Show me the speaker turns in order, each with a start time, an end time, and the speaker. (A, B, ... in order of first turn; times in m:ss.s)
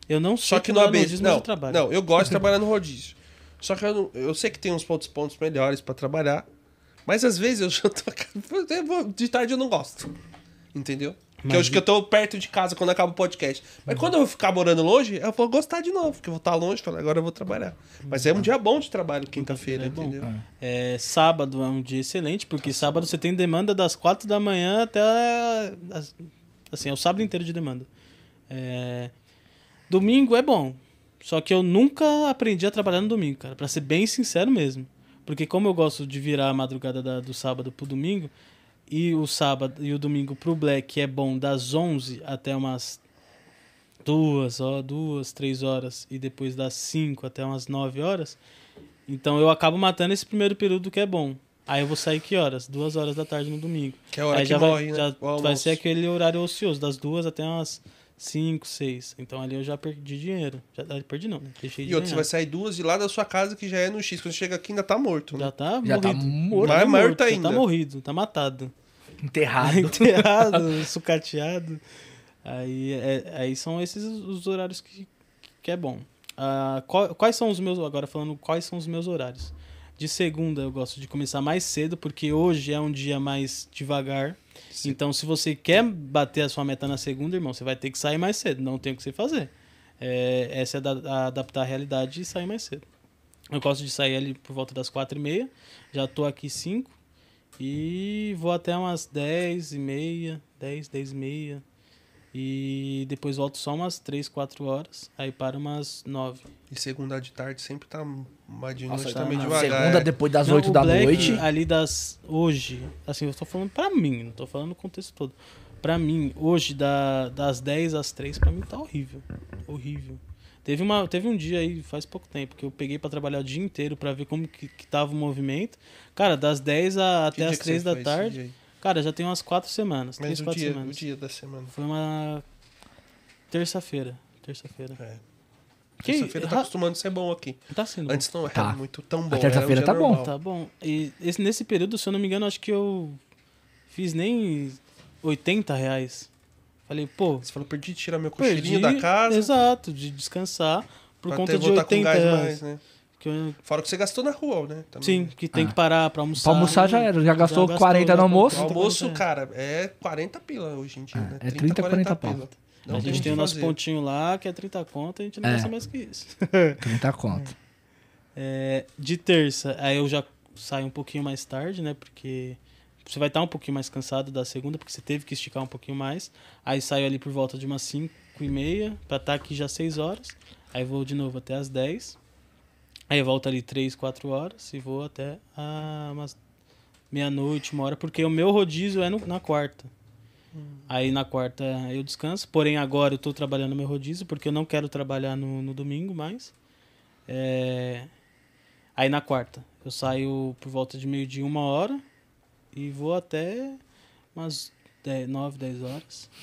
0:00.1-0:01.9 A
0:00.4-0:06.5 B
0:07.1-0:10.1 B
0:10.7-0:20.3 B
0:11.4-0:11.8 A
0:18.0-0:18.4 A
0:19.4-0:27.9 A
0:28.5-0:29.1 A
0:29.9-0:38.3 A
0:38.9-0:43.0 A
0:44.0-0:48.4 A
0:49.1-1:02.3 A
0:54.1-0:55.8 B
1:01.9-1:05.5 B
1:05.4-1:08.7 A
1:05.8-1:06.8 C
1:06.6-1:07.6 B
1:09.2-1:10.7 C
1:09.6-1:11.8 A
1:12.4-1:15.1 A
1:15.6-1:32.8 A
1:33.5-1:36.9 A
1:37.6-1:41.6 A
1:42.3-1:46.5 A
1:46.7-1:50.1 B
1:48.9-1:51.4 C
1:49.1-1:49.9 A
1:50.4-2:11.0 A
1:51.1-1:51.4 B
2:07.4-2:08.5 B
2:10.2-2:11.7 B
2:11.7-2:12.4 A
2:13.5-2:15.0 A
2:16.0-2:20.3 B
2:16.0-2:16.7 A
2:17.7-2:18.3 A
2:18.5-2:18.8 C
2:19.3-2:20.2 C
2:20.2-2:23.2 A
2:23.9-2:26.3 A
2:26.9-2:27.4 A
2:27.4-2:29.5 B
2:28.4-2:32.6 A
2:31.3-2:32.8 B
2:33.2-2:33.6 A
2:33.6-2:35.3 B
2:35.0-2:39.2 A
2:36.4-2:38.6 C
2:38.5-2:43.8 B
2:41.2-2:43.4 C
2:42.9-2:47.5 A
2:45.4-2:45.7 C
2:46.8-2:47.5 C
2:48.4-3:02.2 A
3:03.1-3:06.4 A
3:07.1-3:09.9 A
3:10.6-3:10.8 B
3:10.9-3:16.5 A
3:17.3-3:18.1 A
3:19.0-3:22.0 A
3:22.7-3:23.8 A
3:24.4-3:26.3 A